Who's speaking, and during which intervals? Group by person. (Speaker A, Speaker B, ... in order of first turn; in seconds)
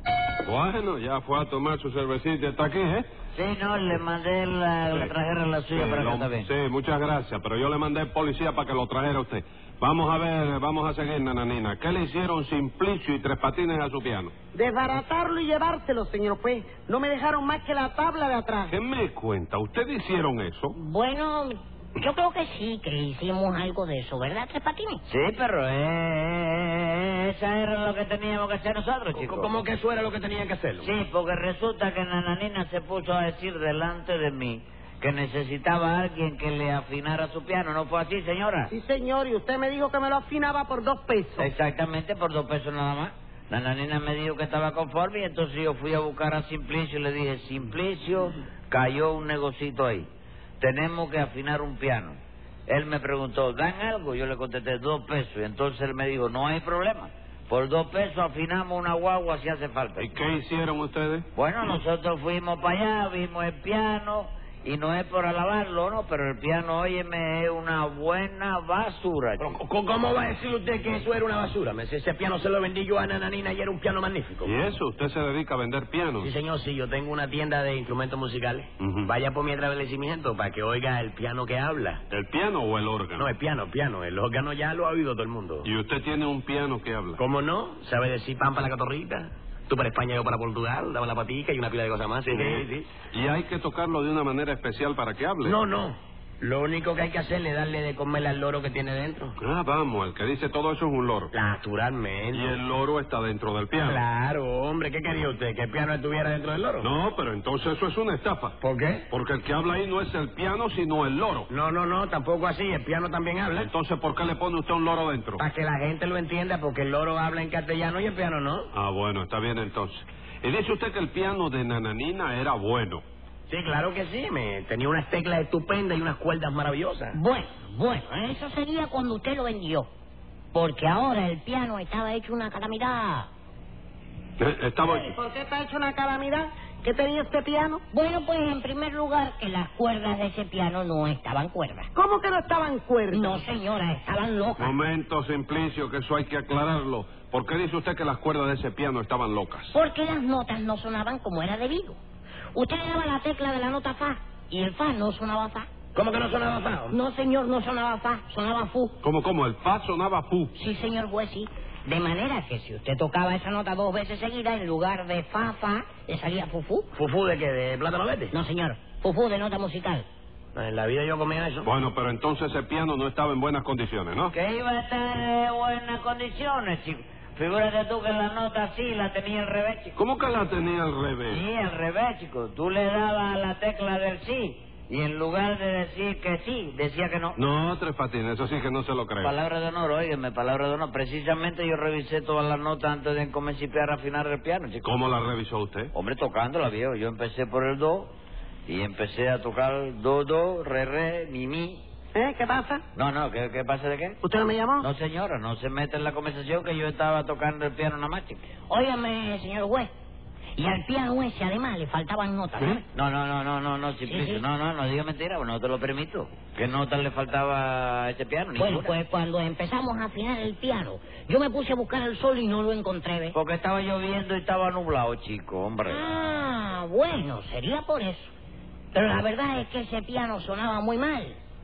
Speaker A: 0.5-3.1, 5.7-14.3, 18.7-20.8, 60.0-61.3, 74.4-76.3, 78.8-79.1, 82.1-83.3, 85.6-87.2, 92.3-95.6, 99.4-101.3, 102.3-104.0, 106.8-108.6, 109.1-111.5, 113.5-115.4, 118.7-123.0, 134.4-135.1, 144.6-149.8, 159.0-160.5, 171.6-174.3, 180.0-181.4, 187.4-189.4, 194.8-195.9
Speaker B: 3.3-6.5, 25.1-29.6, 30.8-38.7, 41.4-50.1, 50.6-60.1, 61.4-69.5, 174.3-180.0, 181.3-187.4, 189.2-194.9, 195.9-198.1, 198.7-201.8, 202.9-204.2, 204.8-208.5, 212.9-218.9, 223.3-226.1
Speaker C: 14.5-18.7, 38.7-41.5, 134.8-137.8, 141.9-143.4, 202.1-202.8, 204.2-204.9
Speaker D: 20.8-25.0, 127.1-129.9, 130.5-133.3, 137.9-141.9, 143.1-144.7, 149.7-152.0, 152.5-155.7, 156.9-159.0, 160.6-166.9, 168.3-170.1, 208.7-209.9, 210.6-212.8, 214.1-214.4, 218.6-223.3, 225.9-228.3, 228.9-231.4
Speaker E: 29.2-30.9, 69.4-74.6, 76.2-82.0, 83.2-85.7, 87.2-92.9, 95.4-99.3, 101.3-102.5, 103.8-106.9, 108.6-109.1, 111.5-113.7, 115.4-118.7, 123.5-127.2, 155.9-156.9, 166.9-168.3, 170.6-171.7